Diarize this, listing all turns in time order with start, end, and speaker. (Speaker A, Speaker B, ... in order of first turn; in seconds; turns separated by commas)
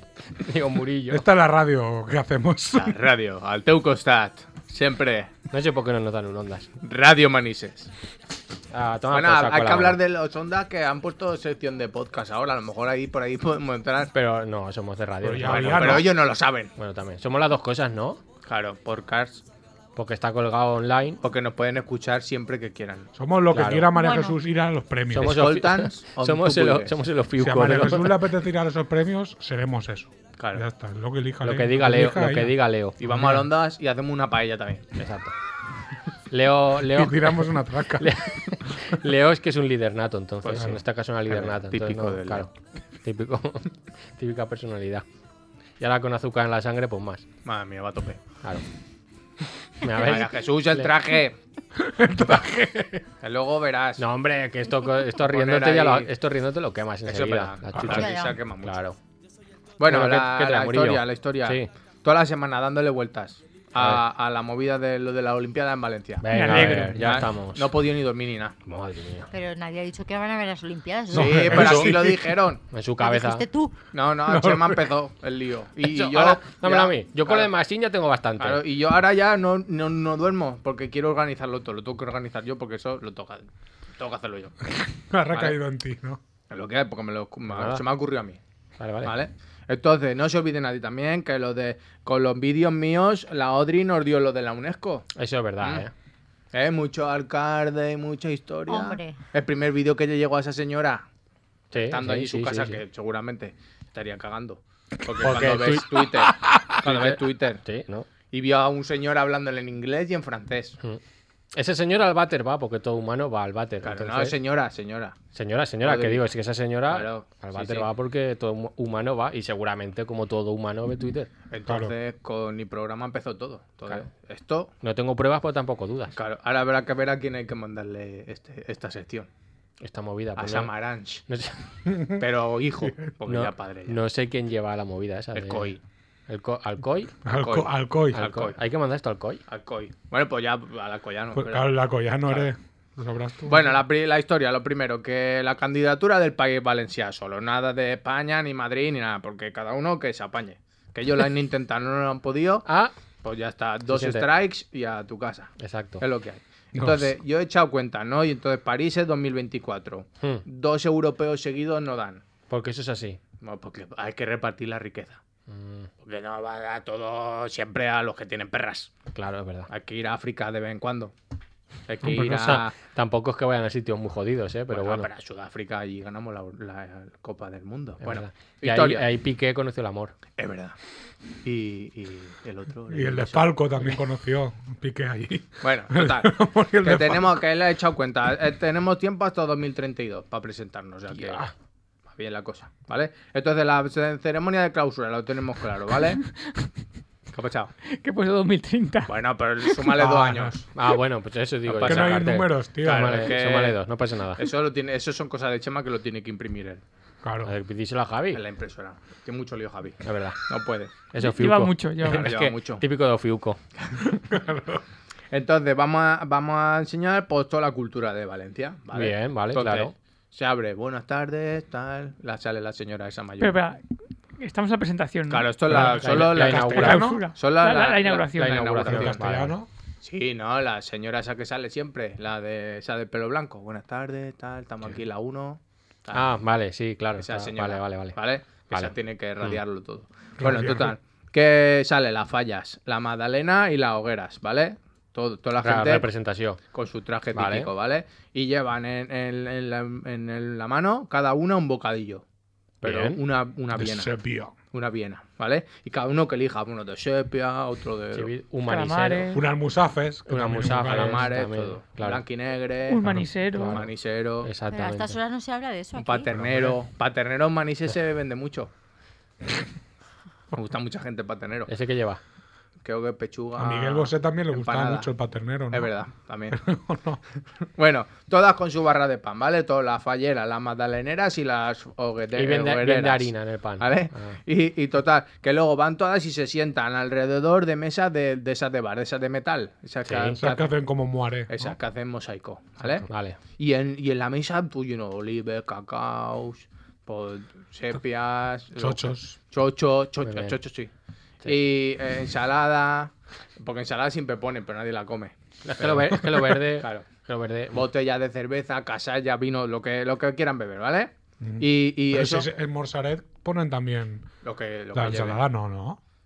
Speaker A: 0.3-1.2, Speaker B: 1.1-3.0, Speaker C: 2.8-5.3, Speaker A: 5.5-6.7, Speaker C: 6.8-7.9, Speaker A: 8.7-10.0, Speaker C: 9.1-14.1, Speaker A: 14.1-16.1, Speaker B: 15.2-16.2, Speaker C: 15.4-16.7, Speaker A: 16.8-18.2, Speaker C: 18.4-19.4, Speaker A: 20.0-21.2, Speaker C: 21.2-23.1, Speaker B: 23.1-25.5, Speaker A: 23.5-23.9, Speaker D: 23.9-24.4, Speaker A: 25.1-28.2, Speaker C: 25.2-26.9, Speaker B: 27.4-33.5, Speaker C: 30.4-30.6, Speaker A: 31.4-33.0, Speaker C: 33.0-34.9, Speaker A: 35.0-35.3, Speaker A: 36.3-42.5, Speaker B: 36.8-39.0, Speaker C: 40.4-42.5, Speaker A: 43.0-45.0, Speaker A: 45.8-47.2, Speaker C: 47.5-48.2, Speaker A: 49.8-50.9, Speaker C: 49.9-51.4, Speaker B: 51.8-53.0, Speaker C: 53.2-54.0, Speaker A: 54.0-59.0, Speaker C: 55.2-56.1, Speaker C: 57.1-58.8, Speaker D: 57.9-58.4, Speaker C: 59.8-68.5, Speaker A: 59.8-61.7, Speaker A: 63.8-64.0, Speaker A: 66.2-67.7, Speaker E: 66.3-67.1, Speaker A: 68.7-69.3, Speaker D: 69.3-71.7, Speaker B: 71.1-72.3, Speaker C: 71.1-72.6, Speaker A: 71.5-72.0, Speaker A: 72.7-73.5, Speaker D: 73.0-73.8, Speaker C: 73.9-77.5, Speaker B: 74.3-74.9, Speaker A: 75.8-78.6, Speaker C: 78.4-84.5, Speaker B: 84.7-86.2, Speaker C: 85.3-85.6, Speaker C: 86.5-88.4, Speaker A: 87.5-87.8, Speaker A: 88.8-89.1, Speaker C: 89.0-95.1, Speaker A: 95.2-95.9, Speaker C: 95.6-95.9, Speaker C: 96.5-101.1, Speaker D: 98.7-99.2, Speaker A: 101.7-102.8, Speaker C: 101.8-107.6, Speaker A: 105.2-106.0, Speaker B: 106.3-106.7, Speaker A: 106.8-108.1, Speaker C: 108.3-110.8, Speaker A: 111.5-114.4, Speaker C: 113.8-115.2, Speaker A: 115.3-121.3, Speaker C: 115.8-116.3, Speaker C: 116.9-117.9, Speaker C: 121.5-124.7, Speaker B: 121.7-122.0, Speaker A: 124.8-126.2, Speaker C: 126.2-129.3, Speaker A: 129.8-130.7, Speaker C: 130.4-131.2, Speaker A: 131.3-131.6, Speaker B: 131.9-132.2, Speaker C: 132.2-134.0, Speaker A: 133.3-135.7, Speaker C: 135.3-135.8, Speaker A: 136.3-137.1, Speaker B: 137.2-138.3, Speaker C: 137.3-138.6, Speaker A: 138.1-139.4, Speaker C: 139.5-141.7, Speaker B: 141.3-143.8, Speaker C: 142.2-142.5, Speaker C: 143.5-152.7, Speaker A: 152.7-152.9, Speaker C: 153.2-162.2, Speaker A: 153.9-154.3, Speaker A: 155.6-156.0, Speaker B: 156.8-157.2, Speaker A: 162.5-163.2, Speaker C: 163.4-165.2, Speaker A: 165.5-165.9, Speaker C: 166.0-168.9, Speaker A: 169.2-169.7, Speaker C: 169.7-171.1, Speaker C: 171.9-172.7, Speaker A: 172.0-175.1, Speaker C: 174.7-179.1, Speaker A: 178.0-180.1, Speaker C: 180.4-180.8, Speaker C: 181.4-183.5, Speaker B: 182.9-187.4, Speaker C: 185.6-191.5, Speaker A: 191.2-191.5, Speaker C: 192.1-196.2, Speaker C: 197.3-197.7, Speaker E: 197.9-199.1, Speaker C: 199.1-200.7, Speaker B: 199.9-200.6, Speaker A: 200.8-204.4, Speaker C: 201.7-203.8, Speaker B: 201.8-203.3, Speaker C: 204.4-206.8, Speaker B: 207.2-207.5, Speaker A: 207.4-208.4, Speaker C: 208.3-211.0, Speaker A: 210.0-210.4, Speaker A: 211.1-213.6, Speaker E: 211.2-212.3, Speaker C: 212.1-212.8, Speaker B: 214.0-214.8, Speaker C: 215.3-223.6, Speaker A: 218.9-219.9, Speaker E: 223.4-223.8, Speaker E: 224.4-225.6, Speaker C: 225.3-229.2, Speaker B: 225.7-227.3, Speaker A: 225.7-227.1, Speaker E: 226.8-228.7, Speaker A: 228.3-229.6, Speaker B: 228.9-229.7, Speaker C: 230.0-236.3, Speaker A: 236.1-239.6, Speaker C: 237.2-246.1, Speaker B: 240.4-241.0, Speaker A: 245.6-246.6, Speaker C: 246.7-252.2, Speaker A: 247.3-247.7, Speaker A: 252.8-253.2, Speaker C: 252.8-254.1, Speaker B: 253.7-254.6, Speaker C: 254.7-258.3, Speaker A: 258.1-259.4, Speaker E: 258.6-259.4, Speaker B: 259.3-261.4, Speaker A: 260.3-262.2, Speaker C: 260.7-263.1, Speaker E: 262.9-263.8, Speaker B: 263.0-263.3, Speaker A: 263.5-263.9, Speaker C: 263.7-264.5, Speaker A: 264.4-265.2, Speaker D: 264.7-266.3, Speaker C: 266.0-268.7, Speaker B: 266.4-266.8, Speaker C: 270.5-271.7, Speaker A: 271.7-272.2, Speaker C: 272.8-275.1, Speaker B: 273.6-275.9, Speaker C: 275.7-276.6, Speaker B: 276.5-277.2, Speaker C: 277.8-290.8, Speaker A: 282.4-284.4, Speaker A: 290.0-290.4, Speaker B: 290.4-291.8, Speaker C: 291.5-300.9, Speaker A: 293.0-293.4, Speaker B: 298.8-299.4, Speaker A: 300.2-300.6, Speaker C: 301.4-307.1, Speaker A: 305.6-307.8, Speaker B: 306.2-306.4, Speaker C: 307.7-312.5, Speaker B: 311.4-314.3, Speaker C: 314.4-315.4, Speaker B: 314.9-316.0